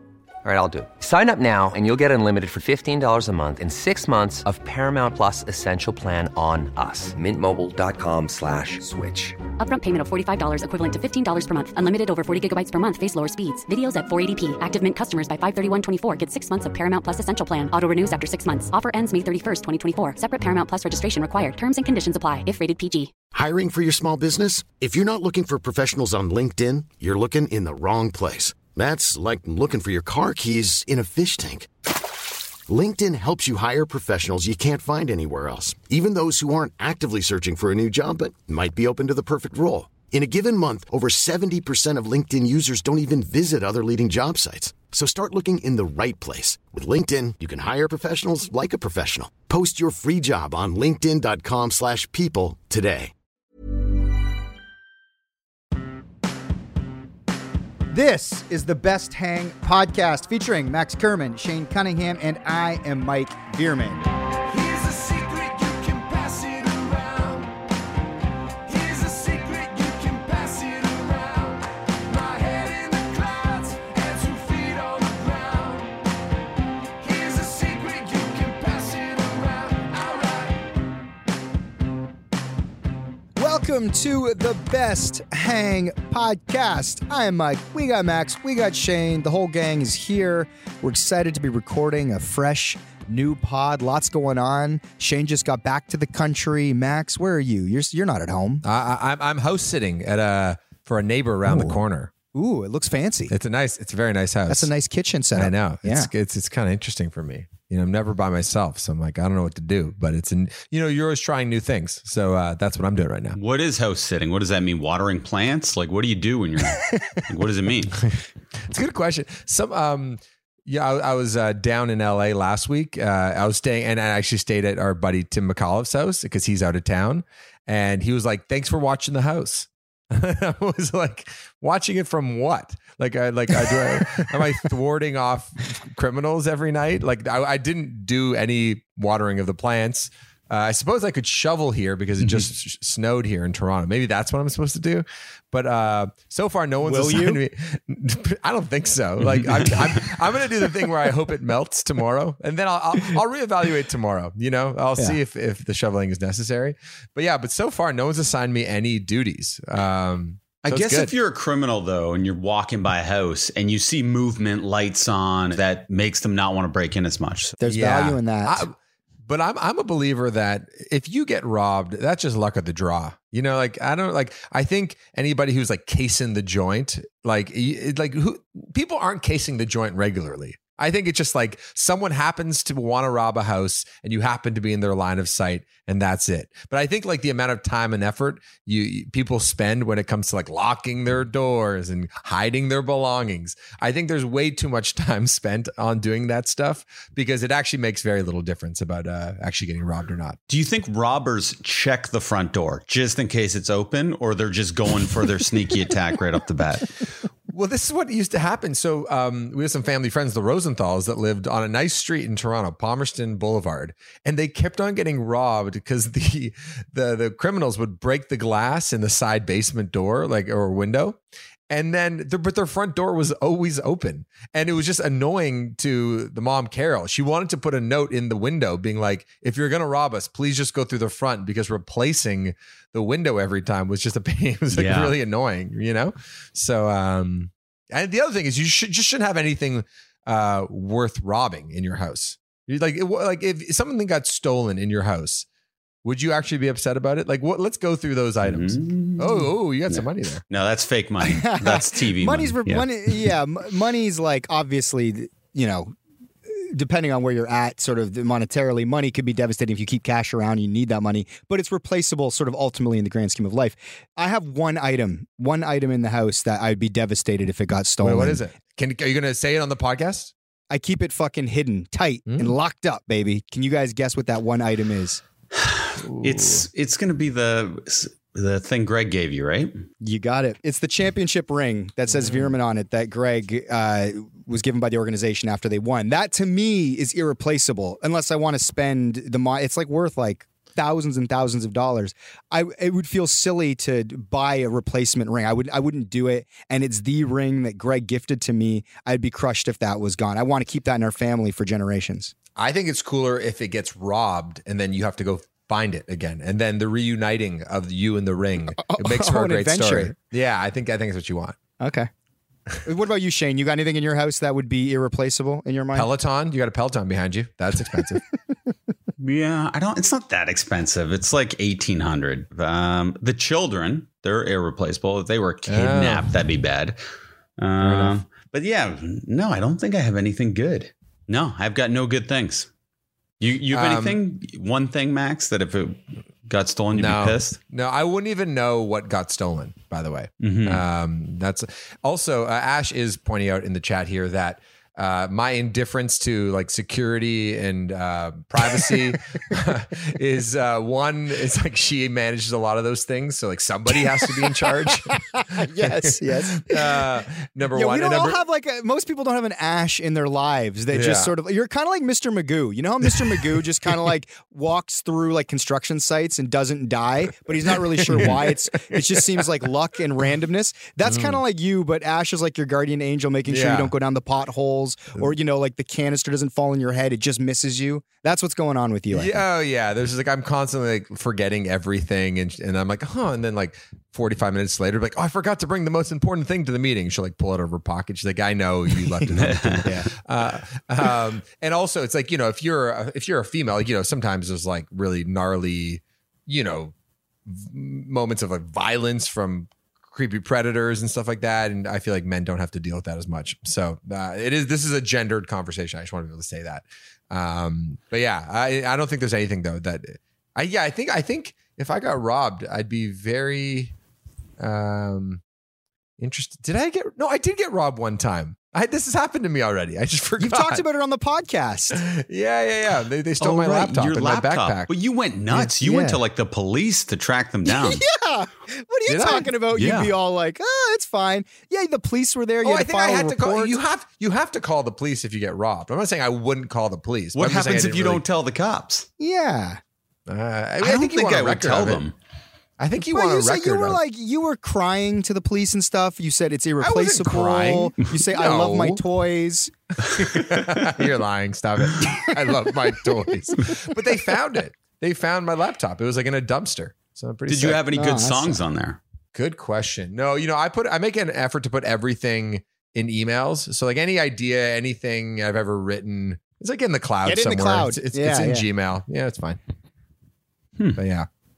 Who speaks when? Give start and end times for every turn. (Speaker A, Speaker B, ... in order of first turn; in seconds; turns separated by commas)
Speaker A: 0.5-9.4, Speaker B: 9.6-23.1, Speaker C: 23.3-31.7, Speaker C: 32.7-53.1, Speaker D: 57.9-64.0, Speaker E: 64.5-67.5, Speaker E: 68.7-75.9, Speaker E: 77.0-80.6, Speaker D: 83.4-98.6, Speaker E: 98.6-102.1, Speaker D: 101.5-101.8, Speaker D: 102.3-103.3, Speaker E: 103.3-104.7, Speaker D: 104.5-106.1, Speaker E: 105.3-113.4, Speaker F: 113.3-118.0, Speaker E: 118.7-161.1, Speaker F: 142.2-142.5, Speaker D: 146.8-147.4, Speaker F: 149.2-150.0, Speaker F: 160.6-167.6, Speaker D: 167.6-168.6, Speaker E: 167.6-200.4, Speaker F: 200.5-206.9, Speaker E: 207.5-221.2, Speaker E: 221.7-245.5, Speaker F: 234.7-235.2, Speaker E: 246.0-250.4, Speaker F: 248.4-252.9, Speaker D: 251.2-255.9, Speaker D: 256.5-268.4, Speaker E: 268.0-270.3, Speaker D: 270.7-275.2, Speaker E: 272.3-272.5, Speaker F: 275.6-279.8, Speaker E: 276.1-276.6, Speaker D: 280.0-302.3, Speaker E: 282.2-282.5, Speaker E: 302.6-311.6, Speaker D: 308.7-310.1, Speaker D: 311.8-312.1, Speaker D: 312.9-316.1, Speaker E: 315.9-318.2, Speaker F: 319.2-327.0, Speaker E: 325.7-326.4, Speaker F: 327.6-332.7, Speaker E: 327.8-328.2, Speaker F: 333.4-337.6, Speaker E: 333.7-334.2, Speaker E: 336.9-358.4, Speaker F: 340.4-340.8, Speaker D: 355.4-357.1, Speaker D: 357.7-379.4, Speaker E: 360.9-361.3, Speaker E: 367.8-369.5, Speaker E: 371.0-371.4, Speaker E: 373.5-373.9, Speaker E: 379.1-396.9, Speaker F: 389.4-389.8, Speaker E: 397.5-413.9, Speaker E: 414.6-415.4, Speaker E: 416.2-420.8, Speaker D: 420.4-422.0, Speaker E: 421.9-424.9, Speaker F: 423.4-428.0, Speaker D: 425.5-426.2, Speaker D: 427.6-433.8, Speaker E: 429.1-429.5, Speaker F: 429.8-430.1, Speaker E: 432.6-438.2, Speaker F: 437.4-439.1, Speaker D: 439.2-439.8, Speaker E: 440.3-442.0, Speaker F: 440.8-442.1, Speaker E: 442.8-444.0, Speaker D: 443.1-449.7, Speaker E: 446.8-449.0, Speaker E: 450.1-457.8, Speaker F: 457.5-459.0, Speaker D: 457.9-458.6, Speaker E: 459.3-469.6, Speaker D: 467.2-468.7, Speaker E: 471.0-471.3